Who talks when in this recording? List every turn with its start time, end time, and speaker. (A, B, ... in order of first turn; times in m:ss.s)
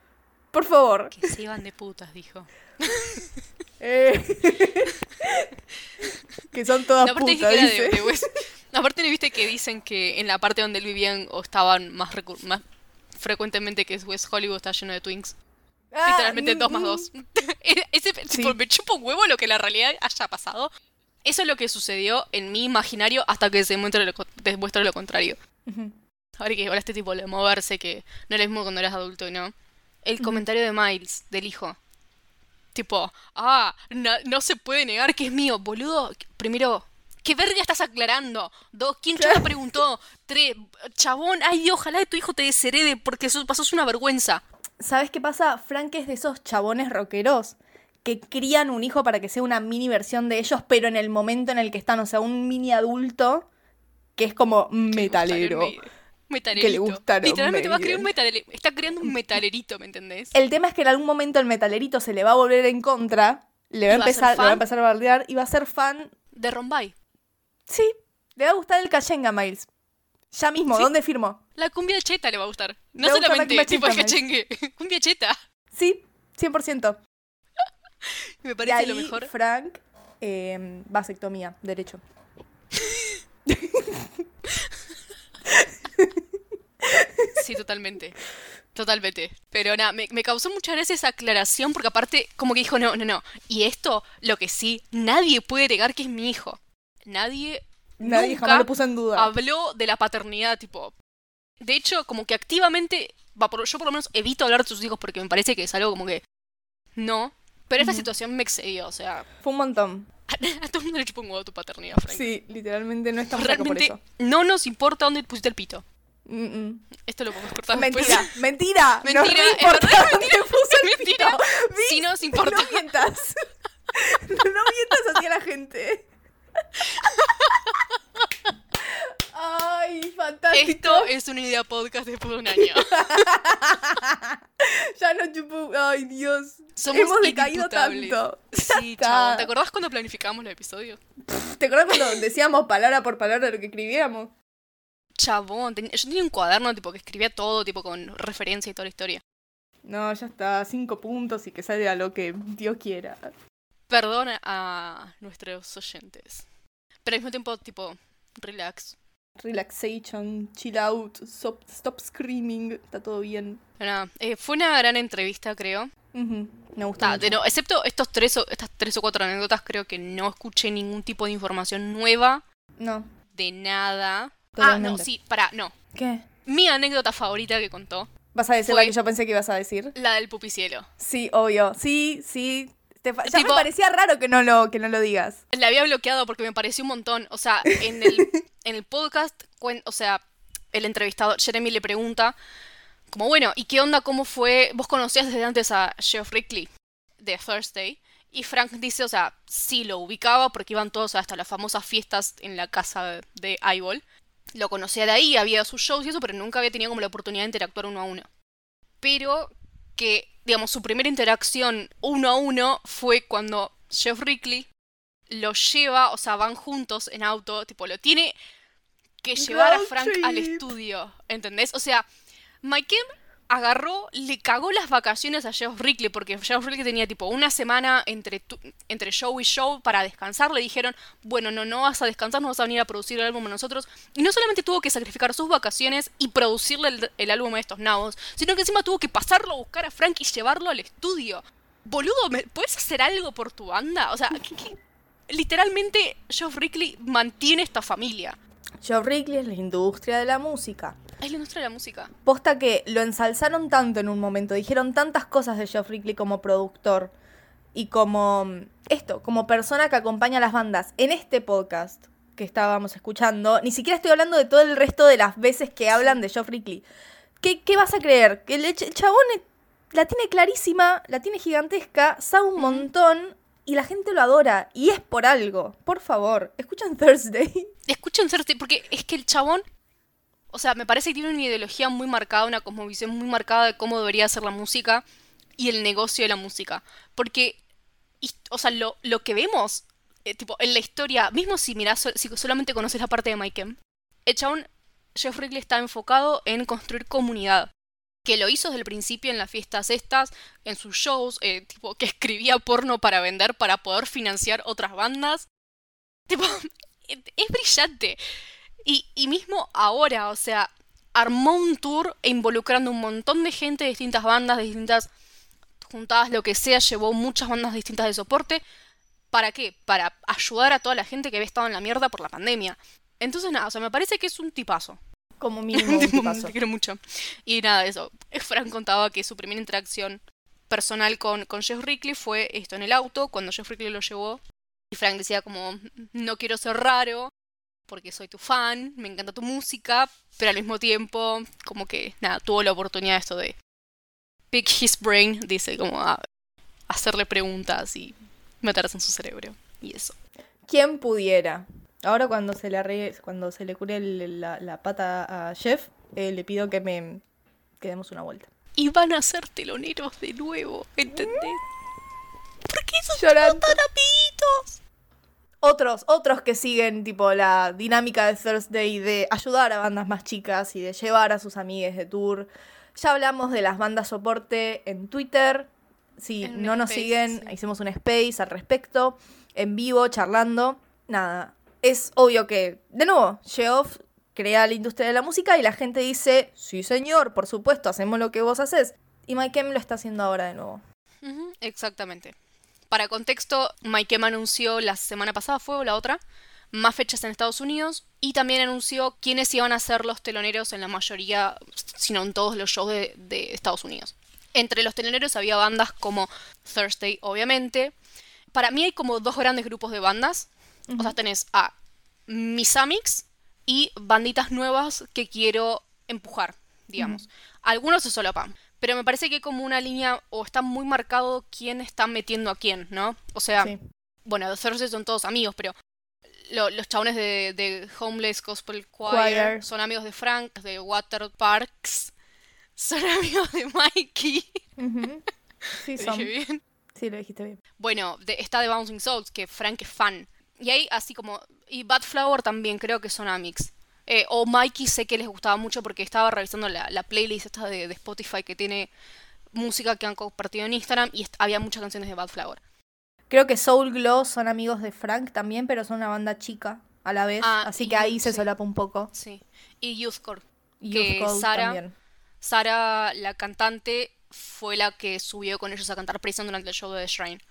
0:00.5-0:01.2 A
0:01.1-0:03.3 B
0:03.8-0:05.5 A
0:06.5-0:08.2 A
0:07.0-0:12.6 B
0:13.2-0:15.4 B
0:15.9-0:17.1 A
0:16.0-0:20.7 B
0:18.3-0:18.6 A
0:21.2-0:25.4 B
0:25.7-0:25.9 A
0:26.4-0:29.5 B
0:30.0-0:31.8 B
0:32.7-0:44.4 B
0:39.2-0:39.7 A
0:44.8-0:53.5 A
0:54.2-0:55.7 A
0:54.9-1:00.3 B
0:56.5-0:58.1 A
1:00.3-1:06.1 A
1:03.9-1:04.6 B
1:06.3-1:06.9 B
1:07.7-1:09.7 A
1:10.3-1:11.4 A
1:11.6-1:15.4 B
1:13.0-1:14.2 A
1:15.7-1:17.0 A
1:18.0-1:19.3 B
1:18.6-1:22.0 A
1:22.8-1:23.2 B
1:23.5-1:24.2 A
1:25.5-1:26.2 A
1:26.9-1:27.4 A
1:27.3-1:28.2 B
1:28.7-1:40.9 B
1:38.0-1:39.3 A
1:41.6-1:46.2 B
1:47.0-1:49.3 B
1:47.8-1:48.1 A
1:49.4-1:50.1 A
1:50.3-1:52.3 B
1:52.1-1:54.0 A
1:53.3-1:55.8 B
1:56.3-1:56.9 A
1:57.0-1:58.3 B
1:57.7-2:03.4 A
1:59.0-2:02.8 B
2:03.9-2:06.1 A
2:07.0-2:07.6 B
2:08.9-2:11.1 A
2:10.5-2:13.3 B
2:12.6-2:19.5 A
2:16.8-2:21.0 B
2:21.2-2:24.3 A
2:21.9-2:22.2 B
2:25.2-2:29.2 B
2:29.8-2:33.3 A
2:33.9-2:36.4 B
2:37.0-2:39.0 B
2:39.4-2:43.6 A
2:43.8-2:45.9 B
2:46.1-2:47.4 A
2:47.0-2:52.4 B
2:52.8-2:53.1 A
2:53.3-2:55.7 B
2:54.6-2:55.1 A
2:55.9-2:56.2 A
2:56.4-2:58.1 B
2:58.3-2:59.9 A
2:58.6-2:58.9 B
2:59.9-3:00.9 B
3:01.0-3:05.4 A
3:03.2-3:03.7 B
3:05.5-3:12.3 B
3:07.7-3:08.4 A
3:13.1-3:16.7 B
3:17.2-3:24.0 B
3:24.5-3:28.3 B
3:29.0-3:34.7 B
3:35.3-3:38.3 B
3:39.2-3:42.0 B
3:39.4-3:40.7 A
3:42.6-4:04.8 B
4:05.3-4:08.4 B
4:08.8-4:11.0 A
4:11.2-4:12.1 B
4:12.2-4:17.1 A
4:17.7-4:26.8 A
4:27.4-4:37.7 A
4:32.6-4:32.9 B
4:37.9-4:39.6 B
4:40.5-4:45.0 B
4:45.6-4:47.6 B
4:48.2-4:57.7 B
4:58.2-5:05.4 B
5:06.3-5:08.2 B
5:08.8-5:15.1 B
5:15.8-5:18.6 B
5:19.3-5:25.0 B
5:25.4-5:26.5 A
5:25.7-5:34.4 B
5:34.9-5:37.3 B
5:37.9-5:43.5 B
5:44.5-5:46.2 B
5:46.9-5:50.2 B
5:50.7-5:57.2 A
5:57.8-5:58.5 A
5:58.8-6:01.6 B
6:01.1-6:01.4 A
6:02.7-6:04.8 B
6:03.2-6:03.8 A
6:05.6-6:30.8 A
6:16.4-6:17.5 B
6:31.2-6:32.3 B
6:32.9-6:36.2 B
6:36.7-6:47.9 B
6:48.5-6:51.7 B
6:50.9-6:51.2 A
6:52.3-7:03.7 B
6:57.0-6:57.2 A
7:04.2-7:05.7 B
7:06.5-7:12.1 B
7:09.1-7:09.6 A
7:12.8-7:14.6 B
7:14.8-7:15.2 A
7:15.8-7:16.3 A
7:16.0-7:16.6 B
7:17.0-7:17.6 A
7:17.8-7:28.9 B
7:29.5-7:32.6 B
7:33.3-7:39.1 A
7:37.4-7:38.5 B
7:39.1-7:41.8 B
7:40.8-7:41.9 A
7:42.4-7:47.4 B